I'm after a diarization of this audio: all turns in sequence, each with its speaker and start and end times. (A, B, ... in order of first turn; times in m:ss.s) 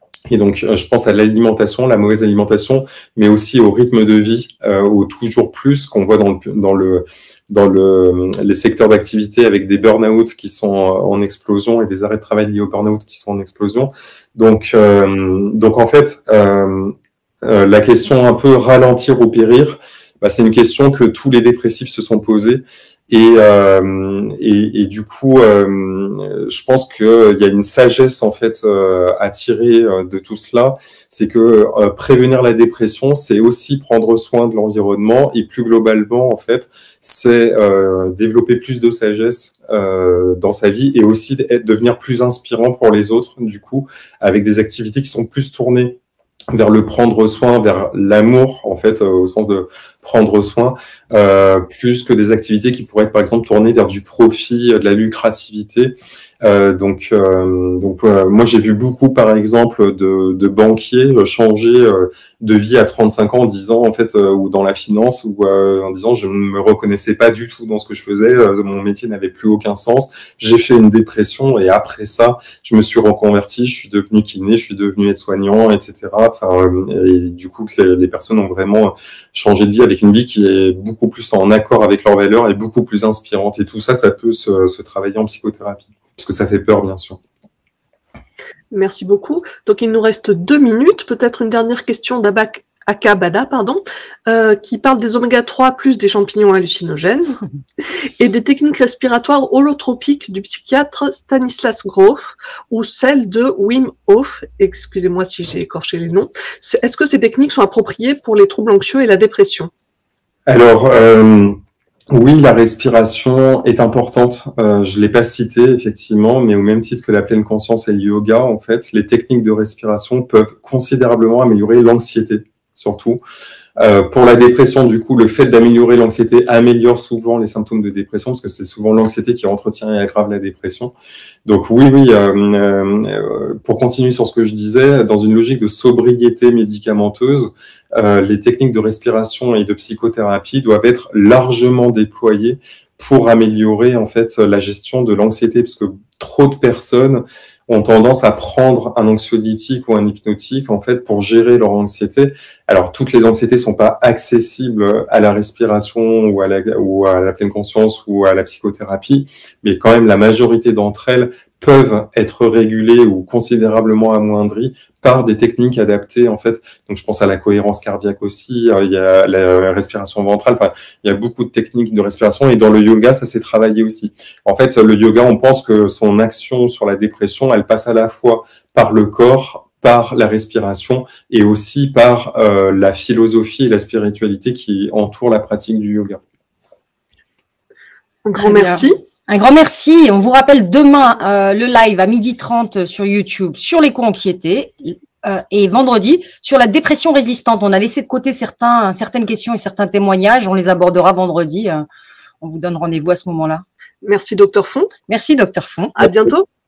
0:00.3-0:46.0 A
0:46.5-1:27.2 A
1:28.7-1:37.4 B
1:38.2-1:49.7 B
1:50.5-1:51.6 A
1:52.1-2:03.2 A
2:03.8-2:10.9 A
2:11.4-3:06.2 A
3:08.2-3:09.0 B
3:08.4-3:21.8 C
3:22.4-3:23.6 C
3:24.0-3:24.9 B
3:25.1-3:26.1 C
3:26.0-3:26.4 B